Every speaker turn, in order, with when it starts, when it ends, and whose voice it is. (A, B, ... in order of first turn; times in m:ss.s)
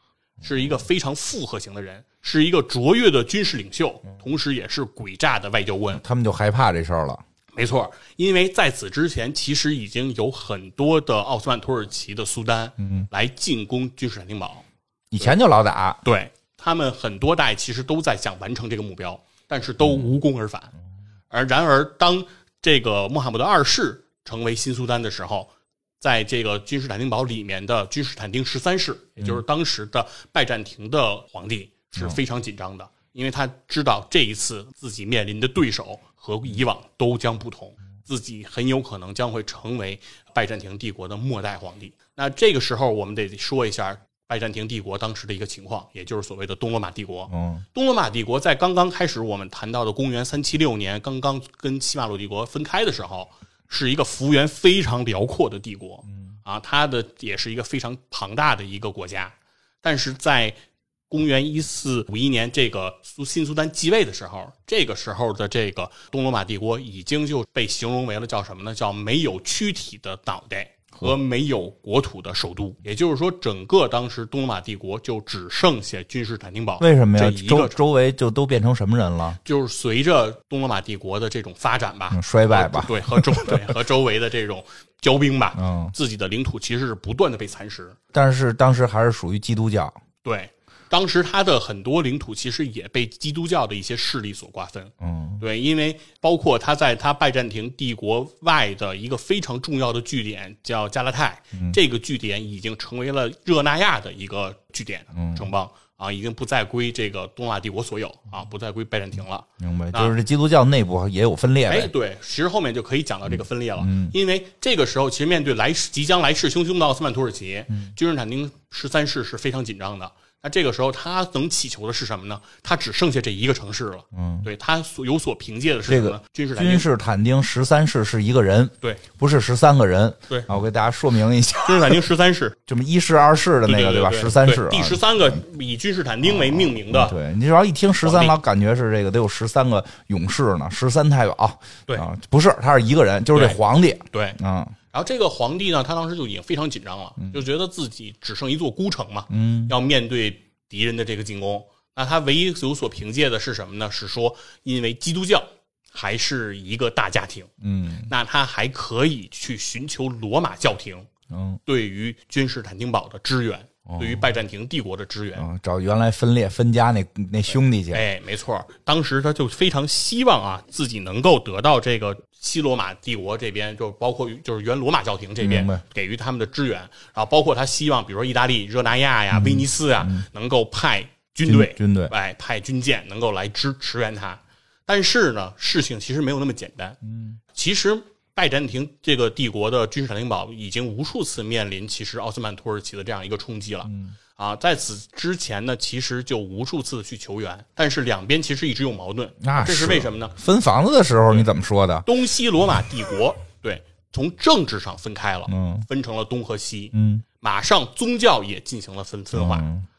0:00.4-0:06.0 A
0:06.0-0:07.2 B
0:07.5-0:14.6 A
0:12.8-0:13.0 B
0:15.1-0:16.0 B
0:16.0-0:20.7 A
0:19.8-0:20.1 B
0:21.3-0:25.5 A
0:26.0-1:00.6 A
0:47.3-0:47.6 B
1:01.1-1:17.8 A
1:16.8-1:19.4 B
1:19.4-1:28.0 A
1:22.1-1:23.7 B
1:25.6-1:25.9 B
1:28.1-1:30.0 B
1:30.2-1:50.2 A
1:35.0-1:35.4 B
1:45.1-1:45.5 B
1:49.6-1:51.9 B
1:51.7-2:06.9 A
1:53.3-1:54.1 B
2:04.1-2:04.5 B
2:05.9-2:12.0 B
2:11.6-2:12.6 A
2:12.7-2:15.4 B
2:13.6-2:17.2 A
2:16.2-2:24.7 B
2:18.0-2:18.4 A
2:23.3-2:24.4 A
2:24.9-2:37.5 A
2:29.3-2:29.7 B
2:37.6-2:38.1 B
2:38.1-2:41.1 A
2:41.3-2:41.6 B
2:41.6-2:45.4 A
2:43.9-2:44.2 B
2:45.4-2:48.0 B
2:47.9-3:07.0 A
2:55.4-2:55.8 B
2:59.3-3:00.2 B
3:01.4-3:02.1 B
3:07.0-3:07.4 B
3:07.5-3:20.3 A
3:13.9-3:14.1 B
3:19.4-3:22.0 B
3:22.0-3:29.7 A
3:25.5-3:25.8 B
3:26.9-3:27.2 B
3:29.3-3:29.8 B